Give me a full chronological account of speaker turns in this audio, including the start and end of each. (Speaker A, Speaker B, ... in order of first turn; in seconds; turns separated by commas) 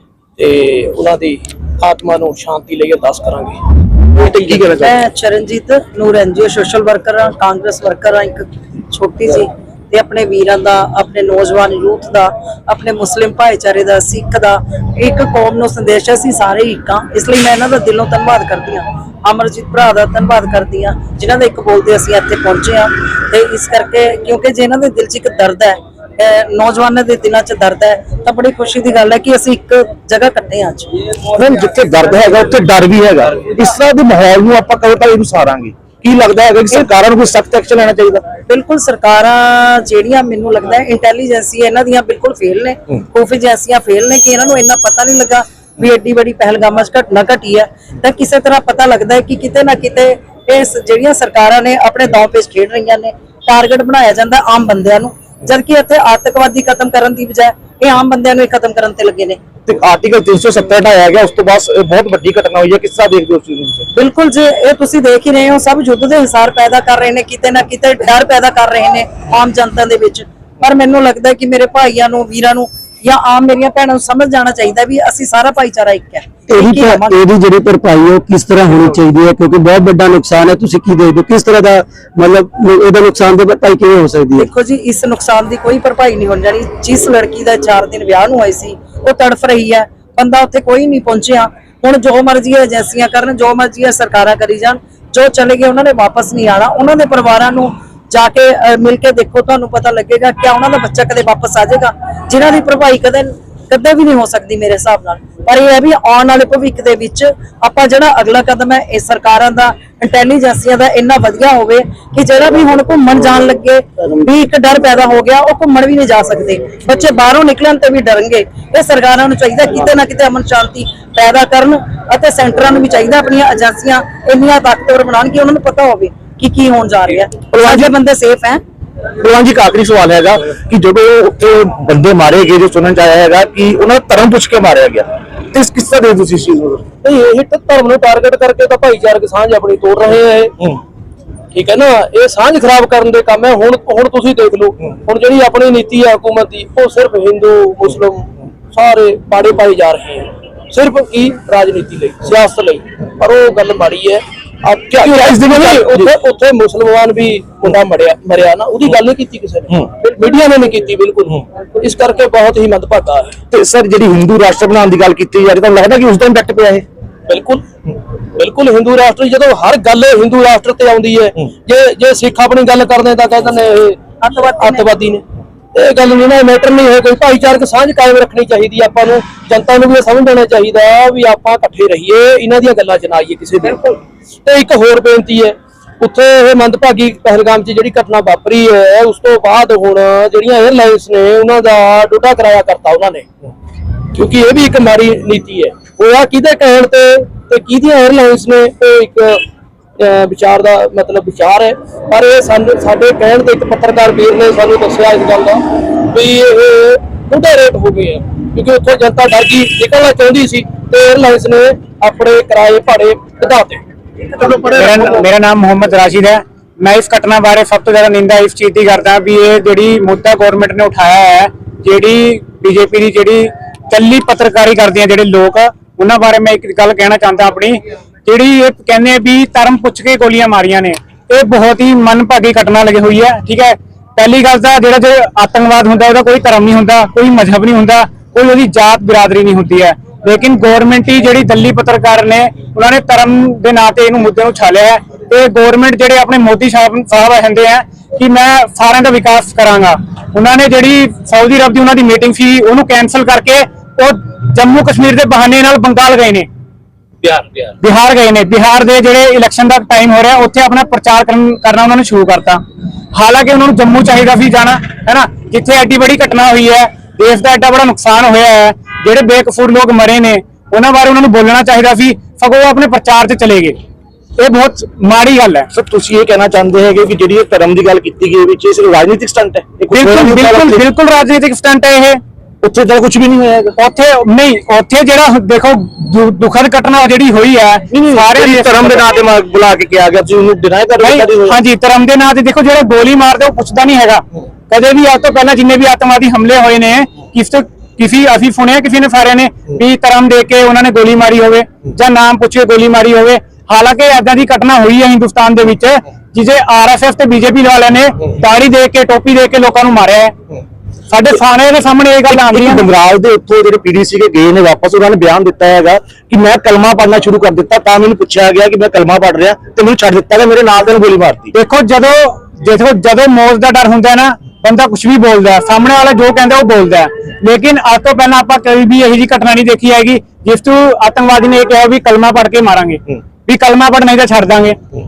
Speaker A: 0.4-3.6, Speaker B: 4.1-5.0, Speaker A: 4.3-4.5, Speaker C: 4.7-30.9, Speaker B: 31.3-38.3, Speaker C: 38.4-59.4, Speaker B: 59.7-63.9, Speaker C: 63.9-77.1, Speaker D: 76.5-84.5, Speaker C: 84.4-128.6, Speaker B: 127.5-127.9, Speaker B: 129.2-136.8, Speaker A: 137.0-140.5, Speaker A: 141.5-163.4, Speaker B: 154.9-156.1, Speaker B: 163.5-166.8, Speaker A: 167.3-167.6, Speaker A: 168.3-174.0, Speaker C: 174.2-174.9, Speaker A: 174.6-175.2, Speaker A: 175.7-183.8, Speaker C: 183.7-184.0, Speaker A: 184.4-193.2, Speaker A: 194.1-199.4, Speaker A: 200.0-213.8, Speaker B: 214.3-215.0, Speaker E: 214.8-256.5, Speaker E: 257.8-262.6, Speaker E: 263.1-273.8, Speaker E: 274.4-275.7, Speaker B: 275.7-280.8, Speaker E: 279.9-282.2, Speaker B: 282.6-283.8, Speaker E: 283.8-289.1, Speaker B: 288.0-291.6, Speaker E: 291.0-310.3, Speaker E: 311.1-312.9, Speaker B: 312.3-321.5, Speaker E: 321.5-334.8